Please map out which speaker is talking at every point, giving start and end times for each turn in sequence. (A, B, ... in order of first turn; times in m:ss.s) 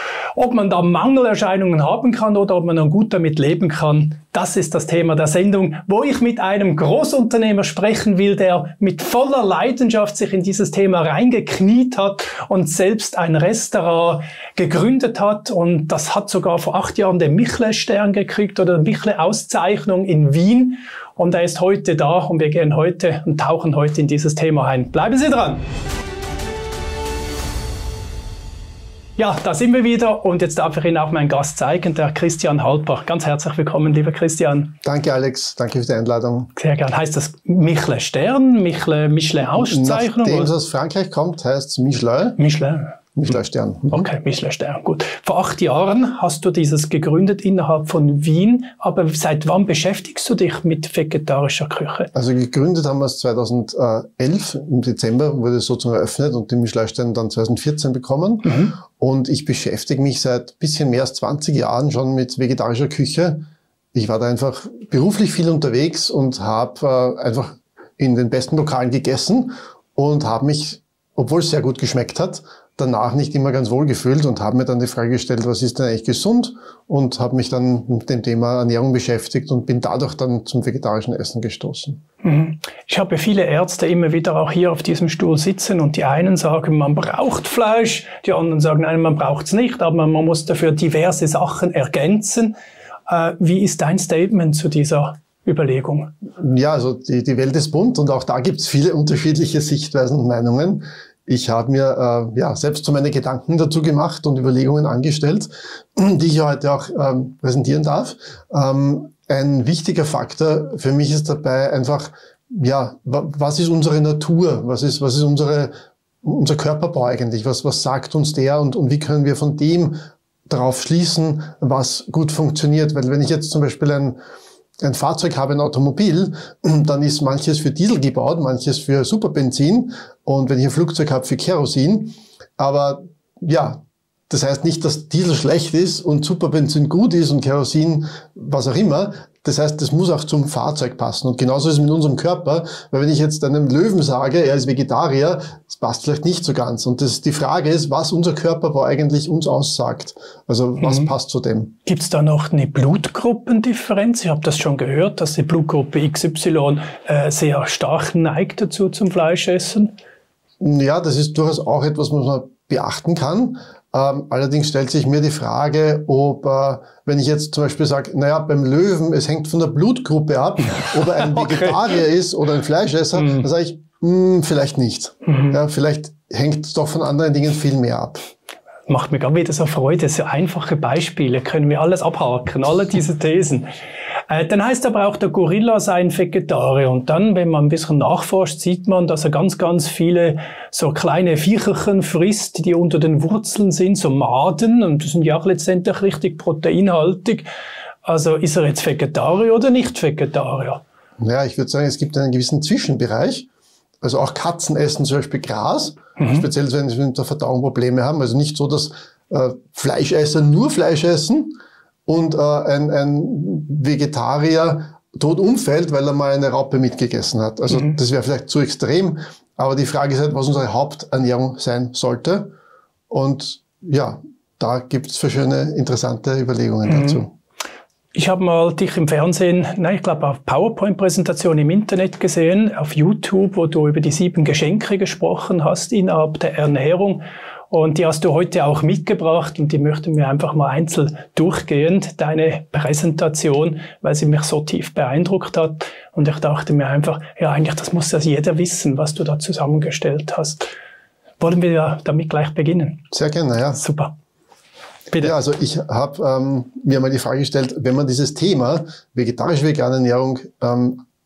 0:00.3-0:25.6 A
0:29.2-0:34.8 A
0:34.8-0:36.5 B
0:36.6-0:40.5 A
0:39.6-0:42.4 B
0:42.4-0:43.0 A
0:43.2-0:44.1 B
0:43.9-0:52.1 A
0:52.1-1:22.0 B
0:58.4-0:58.8 A
1:22.2-1:32.5 A
1:33.1-1:36.1 A
1:36.4-1:55.7 B
1:56.2-2:04.2 B
2:04.8-2:31.7 B
2:30.8-2:31.1 A
2:31.8-2:39.9 A
2:40.6-2:58.2 B
2:50.7-2:52.0 A
2:53.1-2:53.5 A
2:55.2-2:55.6 A
2:58.9-3:03.7 A
3:04.3-3:17.4 A
3:18.0-3:20.8 A
3:21.2-3:23.5 B
3:24.0-3:31.5 B
3:26.2-3:26.4 A
3:32.1-3:42.5 B
3:37.7-3:38.0 A
3:43.1-3:47.3 B
3:46.9-3:47.2 A
3:48.1-4:10.6 A
4:11.4-4:13.0 A
4:13.1-4:13.8 B
4:13.8-4:14.1 A
4:15.2-4:21.1 B